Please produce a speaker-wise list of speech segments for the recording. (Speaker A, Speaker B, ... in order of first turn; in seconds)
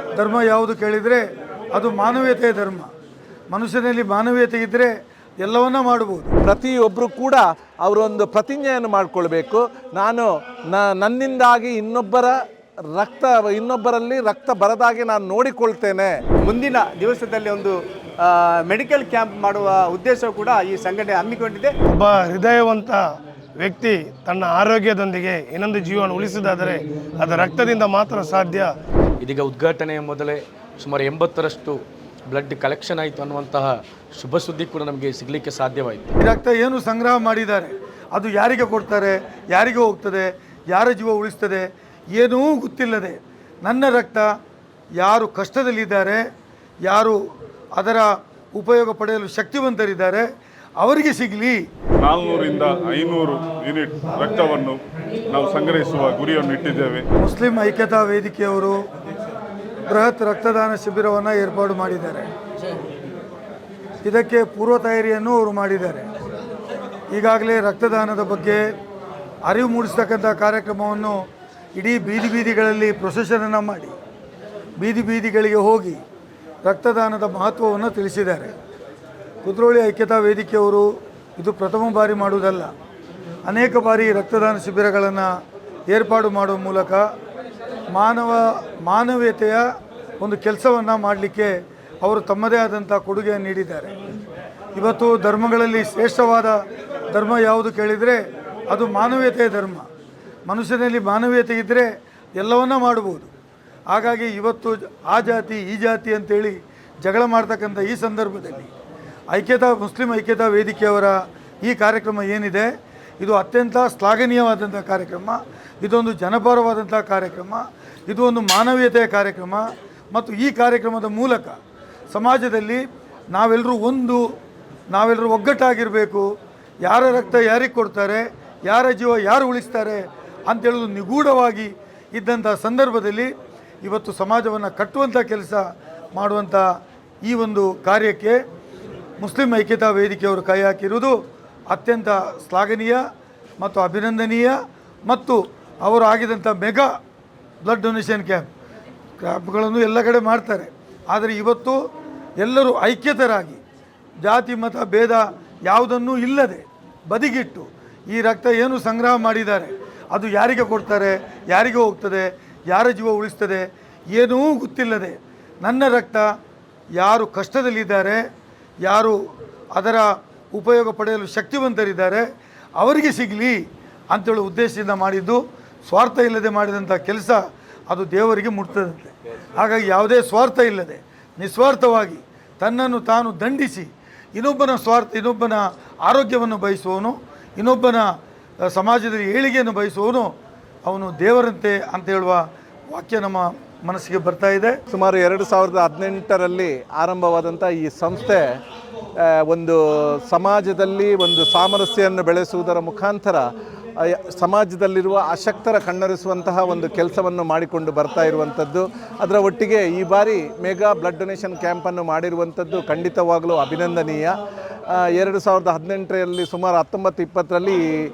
Speaker A: 0.2-1.2, 1.7-2.9, 3.5-6.3, 36.2-44.3, 45.0-46.2, 46.9-47.2, 47.8-50.2, 50.8-51.6, 57.2-58.8, 59.9-62.3, 64.0-66.0, 67.1-68.6, 69.5-71.2, 71.8-73.9, 74.8-76.0, 76.7-78.5, 79.4-80.9, 81.4-82.7, 83.5-85.3, 85.9-87.0, 87.9-89.6, 90.2-93.9, 94.8-96.6, 97.1-98.2, 98.7-99.9, 100.5-101.9, 102.4-103.3, 103.9-108.7, 109.3-121.6, 122.1-124.2, 124.9-126.2, 126.8-133.3, 133.8-135.6, 136.2-136.7, 137.2-138.4, 139.2-141.2, 141.7-143.0, 143.6-146.9, 147.6-148.4, 149.2-151.8, 152.4-153.6, 154.2-166.3, 167.0-168.2, 168.8-169.2, 169.7-172.2, 172.8-173.6, 174.1-188.1, 188.7-190.3, 190.9-194.8
Speaker B: 6.4-12.3, 12.9-16.1, 194.9-198.4, 199.2-203.4, 204.1-214.3, 215.0-217.8
Speaker C: 16.4-21.7
Speaker D: 21.9-23.0, 23.6-28.7
Speaker E: 29.2-31.8, 32.3-36.1
Speaker F: 52.0-57.1